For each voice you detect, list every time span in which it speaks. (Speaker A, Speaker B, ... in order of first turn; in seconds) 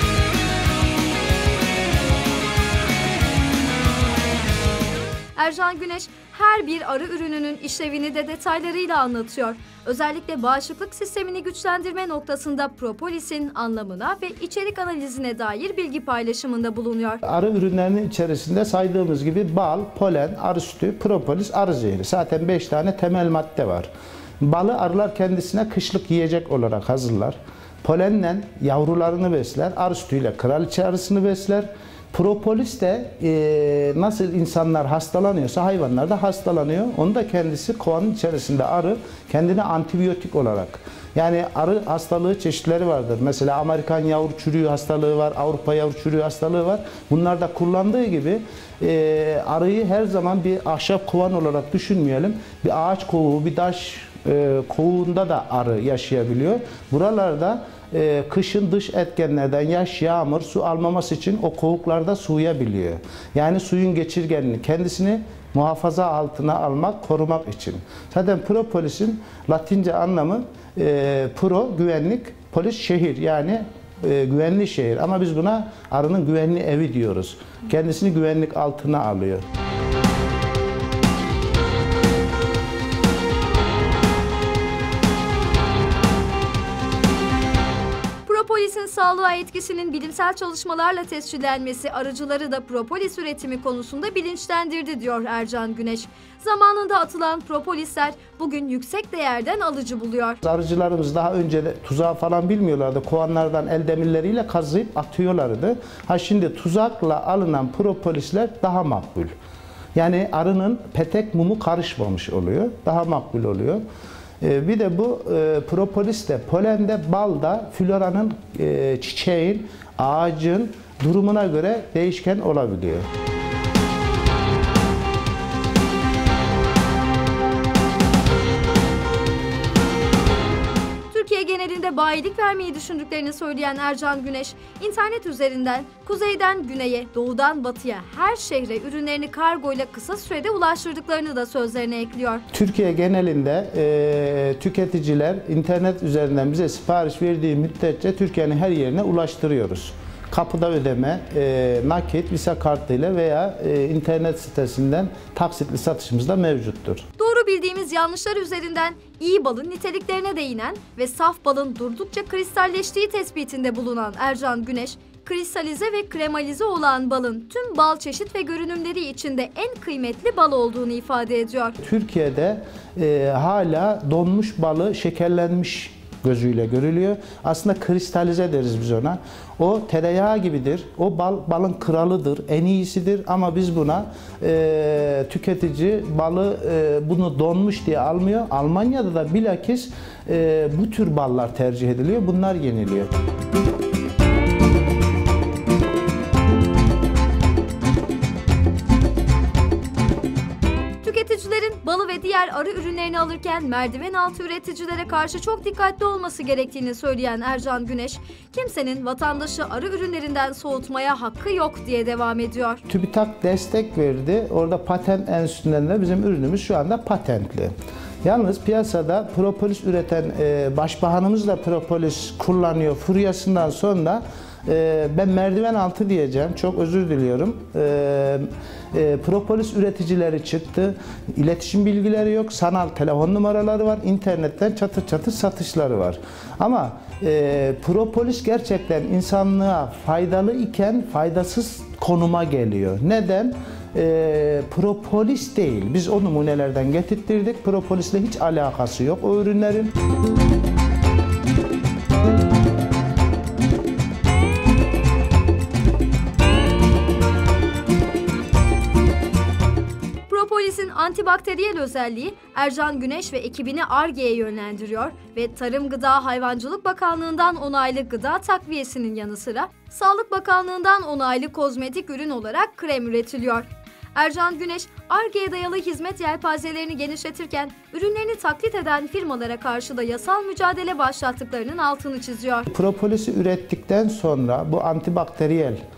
Speaker A: 5.3-17.2, 88.2-100.4, 131.1-142.4, 157.2-171.8, 201.0-212.8, 260.3-282.6
Speaker B: 17.2-23.9, 24.4-79.4, 100.4-109.3, 109.9-113.8, 114.4-123.1, 142.5-157.0, 171.8-193.1, 212.9-217.7, 218.2-249.9, 282.7-285.8